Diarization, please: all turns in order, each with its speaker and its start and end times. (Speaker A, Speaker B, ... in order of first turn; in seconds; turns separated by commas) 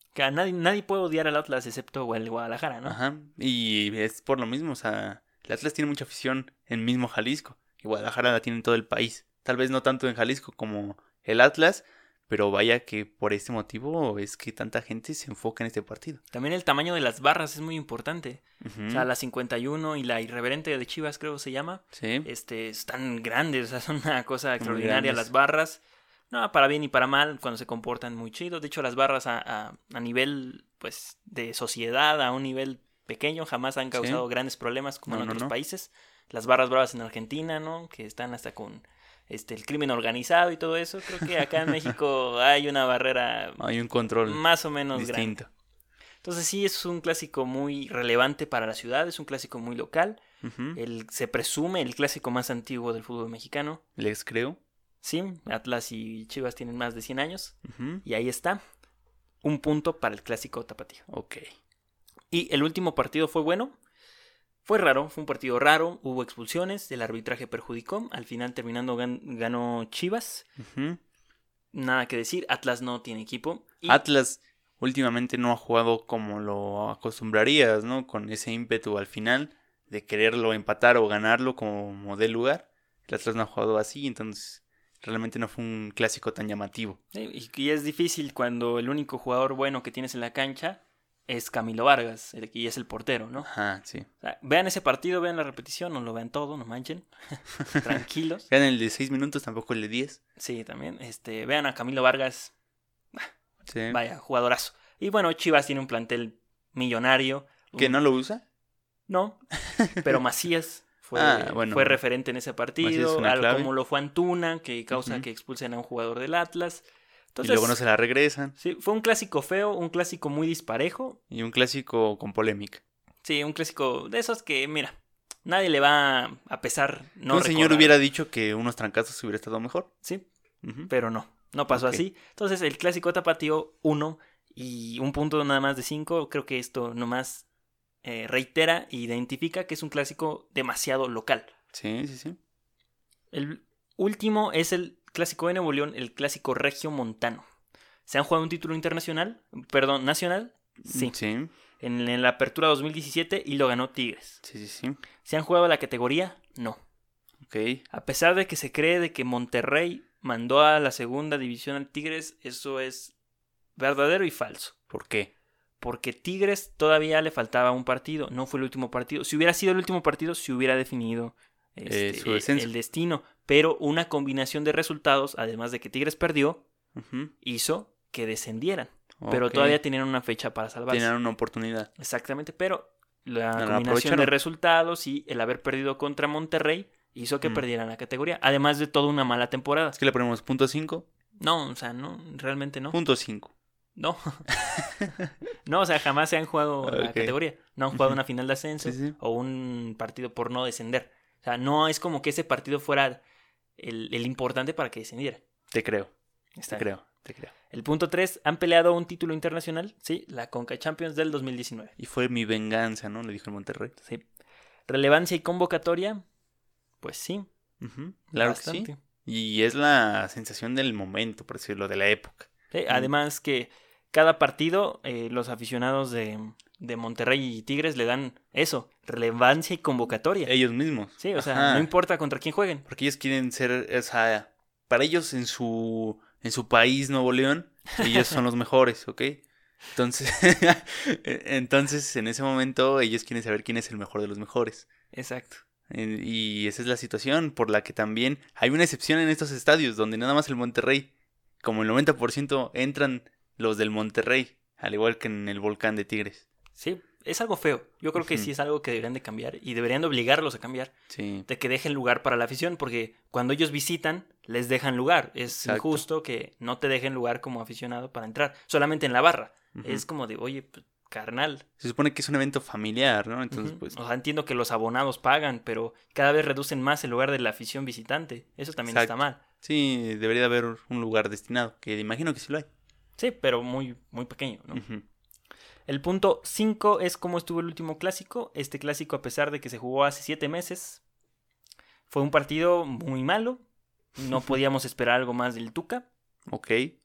Speaker A: 0.1-3.0, Speaker B: 2.9-16.2, Speaker A: 16.3-43.6, Speaker B: 18.6-19.1, Speaker B: 21.9-22.3, Speaker B: 24.6-25.3, Speaker B: 34.0-34.2, Speaker B: 35.1-35.5, Speaker B: 43.6-44.4, Speaker A: 44.2-45.4, Speaker B: 44.9-45.5, Speaker A: 46.2-50.2, Speaker B: 50.4-50.8, Speaker A: 50.8-53.8, Speaker B: 54.0-54.6, Speaker A: 55.0-58.6, Speaker B: 57.6-58.0, Speaker A: 59.4-61.1, Speaker B: 61.1-61.5, Speaker A: 62.3-63.8, Speaker A: 64.7-70.5, Speaker B: 70.6-71.0, Speaker A: 71.7-74.0, Speaker B: 73.9-87.0, Speaker A: 87.1-93.5, Speaker B: 93.4-94.1, Speaker A: 94.2-98.5, Speaker B: 97.9-100.2, Speaker A: 100.4-102.5, Speaker B: 103.7-104.0, Speaker A: 103.9-108.0, Speaker B: 107.8-108.4, Speaker A: 109.1-109.4, Speaker B: 109.7-110.2, Speaker A: 110.0-117.8, Speaker B: 111.1-112.0, Speaker B: 112.8-113.7, Speaker B: 114.9-115.3, Speaker B: 117.4-118.5, Speaker A: 118.6-121.2, Speaker B: 121.3-122.8, Speaker A: 123.2-124.9, Speaker A: 125.5-128.0, Speaker B: 127.3-129.9, Speaker B: 130.6-130.9, Speaker A: 130.9-137.5, Speaker B: 131.7-132.0, Speaker A: 138.0-141.5, Speaker B: 141.7-142.4, Speaker A: 143.3-147.4, Speaker A: 148.1-151.2, Speaker B: 150.8-151.5, Speaker A: 151.8-154.4, Speaker B: 154.4-155.0, Speaker A: 155.2-156.8, Speaker B: 157.4-157.8, Speaker A: 157.9-163.1, Speaker A: 163.8-164.8, Speaker B: 164.9-165.3, Speaker A: 165.8-176.6, Speaker B: 171.9-172.7, Speaker B: 176.9-177.3, Speaker A: 177.4-181.1, Speaker B: 179.2-179.8, Speaker B: 180.9-181.9, Speaker A: 182.0-190.0, Speaker B: 183.6-184.3, Speaker B: 190.0-191.1, Speaker A: 191.4-193.0, Speaker B: 192.9-193.5, Speaker A: 194.0-194.5, Speaker B: 194.7-195.1, Speaker A: 195.7-203.2, Speaker B: 196.8-197.3, Speaker B: 198.8-199.1, Speaker A: 203.8-205.4, Speaker B: 205.7-206.1, Speaker A: 206.6-206.9, Speaker B: 206.7-207.5, Speaker A: 207.7-211.9, Speaker B: 212.0-213.9, Speaker A: 214.9-216.2, Speaker A: 217.0-217.5, Speaker B: 217.8-223.1, Speaker A: 218.3-219.0, Speaker A: 222.7-230.5, Speaker B: 230.5-231.9, Speaker A: 231.2-232.8, Speaker B: 232.9-239.4, Speaker A: 238.0-238.4, Speaker B: 239.9-244.9, Speaker A: 245.1-245.6, Speaker B: 245.9-251.1, Speaker B: 251.6-256.5, Speaker A: 256.8-260.9, Speaker B: 258.2-258.5, Speaker B: 261.1-261.5, Speaker A: 261.5-271.6, Speaker B: 265.5-266.0, Speaker B: 269.8-270.0, Speaker B: 271.8-273.9, Speaker A: 273.5-279.4, Speaker B: 278.9-282.7, Speaker A: 283.2-284.8, Speaker B: 284.7-285.0, Speaker A: 285.9-291.0, Speaker A: 292.1-293.6, Speaker A: 294.2-296.1, Speaker B: 296.5-296.9